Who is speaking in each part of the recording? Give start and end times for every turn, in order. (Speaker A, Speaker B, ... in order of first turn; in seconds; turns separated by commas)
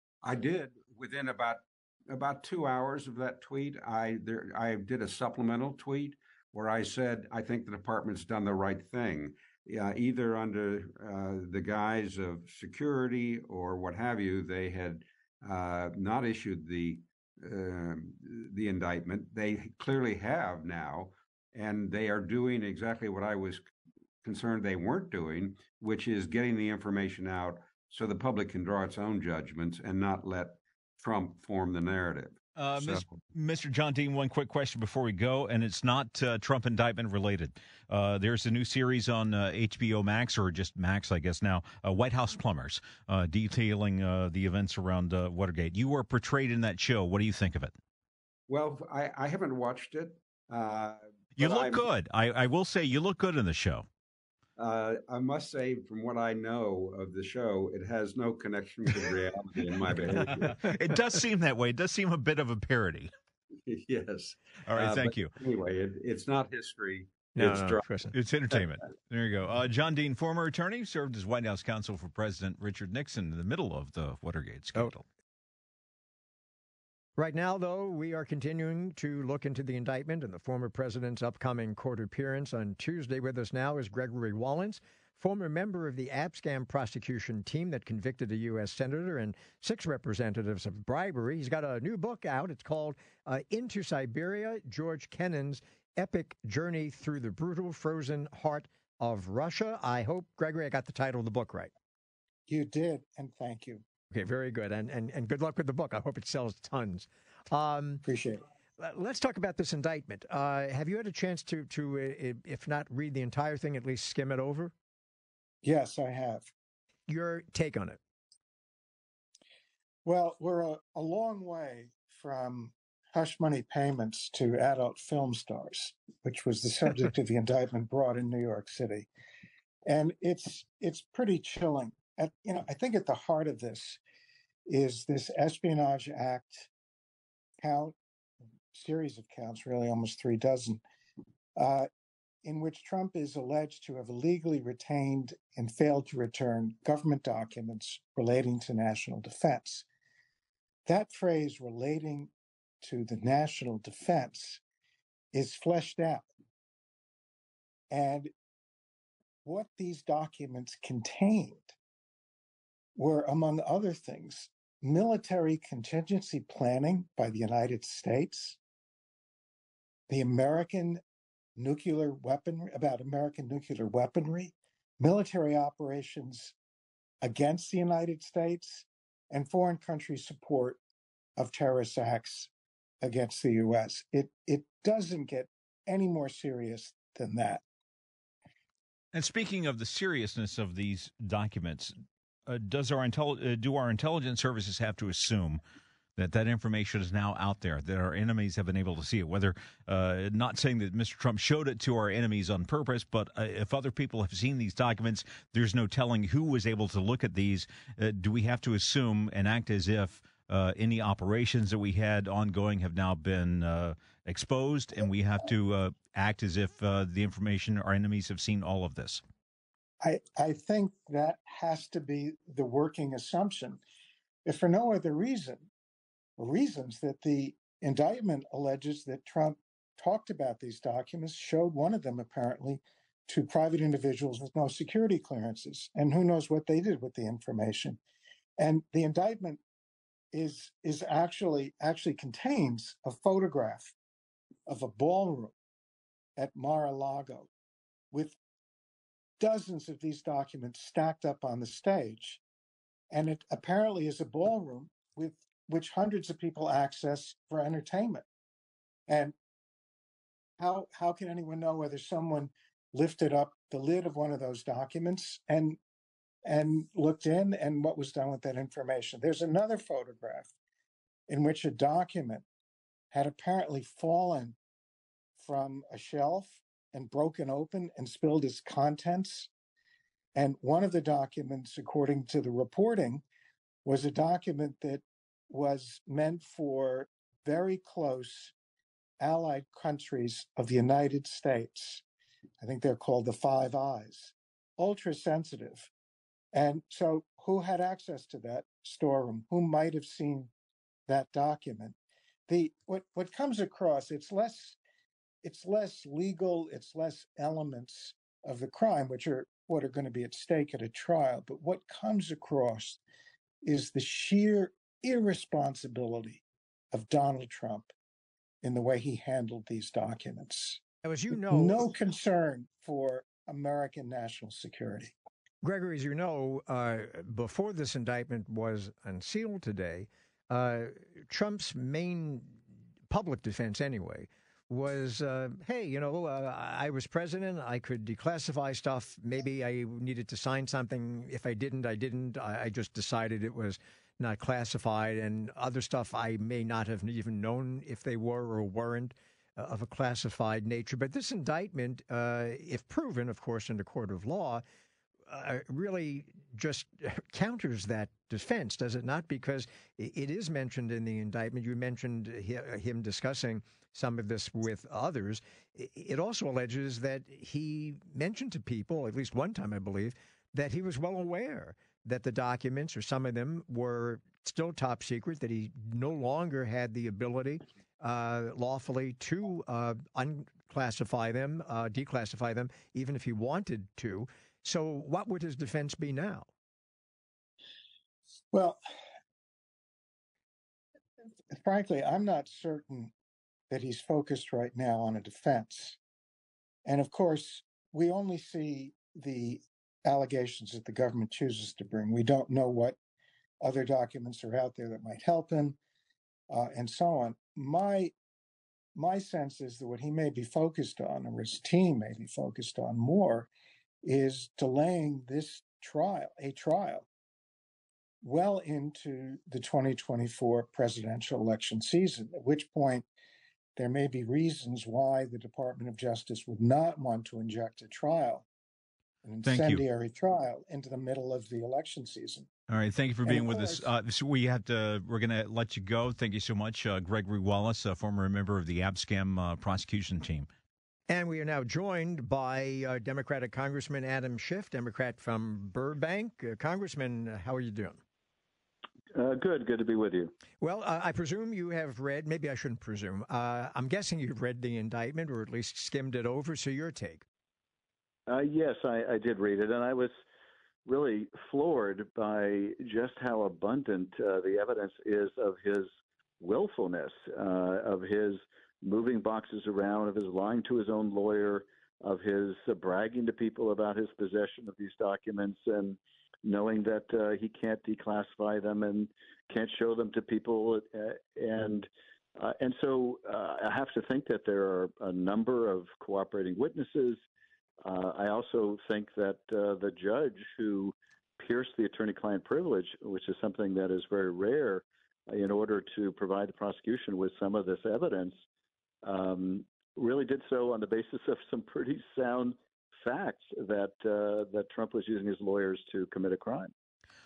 Speaker A: 0.2-23.7, Speaker A: 24.2-33.1, Speaker B: 32.6-47.7, Speaker A: 48.5-51.9, Speaker B: 51.4-53.9, Speaker A: 54.6-60.6, Speaker B: 60.4-63.1, Speaker A: 63.6-67.8, Speaker B: 64.7-65.3, Speaker C: 67.3-68.1, Speaker B: 68.1-75.0, Speaker C: 77.2-101.7, Speaker D: 102.5-103.8, Speaker C: 104.1-108.0, Speaker D: 108.0-108.4, Speaker C: 108.8-114.7, Speaker D: 115.6-116.5, Speaker C: 117.1-118.0, Speaker D: 120.0-129.1, Speaker D: 129.8-134.0, Speaker D: 134.7-136.7, Speaker D: 137.6-137.9, Speaker D: 138.7-140.8, Speaker D: 141.6-141.9, Speaker D: 142.4-149.8, Speaker D: 150.8-152.3, Speaker D: 152.8-154.6, Speaker D: 155.3-156.3, Speaker D: 157.9-158.3, Speaker D: 159.4-161.7, Speaker D: 162.9-168.6, Speaker D: 170.1-171.0, Speaker D: 171.6-176.5, Speaker D: 177.2-180.8, Speaker D: 181.4-182.5, Speaker D: 183.0-187.6, Speaker B: 189.1-191.9, Speaker B: 192.5-195.6, Speaker B: 196.2-219.2, Speaker D: 220.0-223.8, Speaker D: 224.4-225.7, Speaker D: 226.4-238.0, Speaker D: 238.6-239.6, Speaker D: 240.3-243.9, Speaker D: 244.7-245.5, Speaker D: 246.4-247.5, Speaker D: 248.1-248.4, Speaker D: 249.4-252.4, Speaker D: 253.1-258.2, Speaker D: 259.1-259.3, Speaker D: 260.6-265.8, Speaker D: 266.4-270.5, Speaker D: 271.3-272.4, Speaker D: 273.1-274.6, Speaker D: 275.4-279.5, Speaker D: 280.3-283.2, Speaker D: 283.8-288.5, Speaker D: 289.2-292.0, Speaker D: 292.6-295.9, Speaker D: 296.5-300.5, Speaker D: 301.1-301.9, Speaker D: 302.5-304.8, Speaker D: 305.4-313.0, Speaker D: 313.6-317.9, Speaker D: 318.6-320.8, Speaker C: 321.0-321.9, Speaker D: 321.4-325.1, Speaker C: 325.6-332.6, Speaker C: 333.1-354.6, Speaker C: 355.3-386.5, Speaker D: 388.5-388.8, Speaker D: 391.5-393.1, Speaker D: 393.7-396.0, Speaker D: 396.9-403.0, Speaker D: 403.6-405.8, Speaker D: 406.5-408.1, Speaker D: 408.9-413.5, Speaker D: 414.0-417.1, Speaker D: 418.2-423.1, Speaker D: 423.8-428.4, Speaker D: 429.2-432.5, Speaker B: 429.4-429.8, Speaker B: 432.7-440.5, Speaker D: 433.2-433.9, Speaker C: 441.1-448.0, Speaker E: 449.1-450.3, Speaker C: 450.6-457.2, Speaker E: 458.3-460.1, Speaker E: 460.9-465.9, Speaker E: 466.4-487.2, Speaker E: 487.8-498.4, Speaker E: 499.0-506.7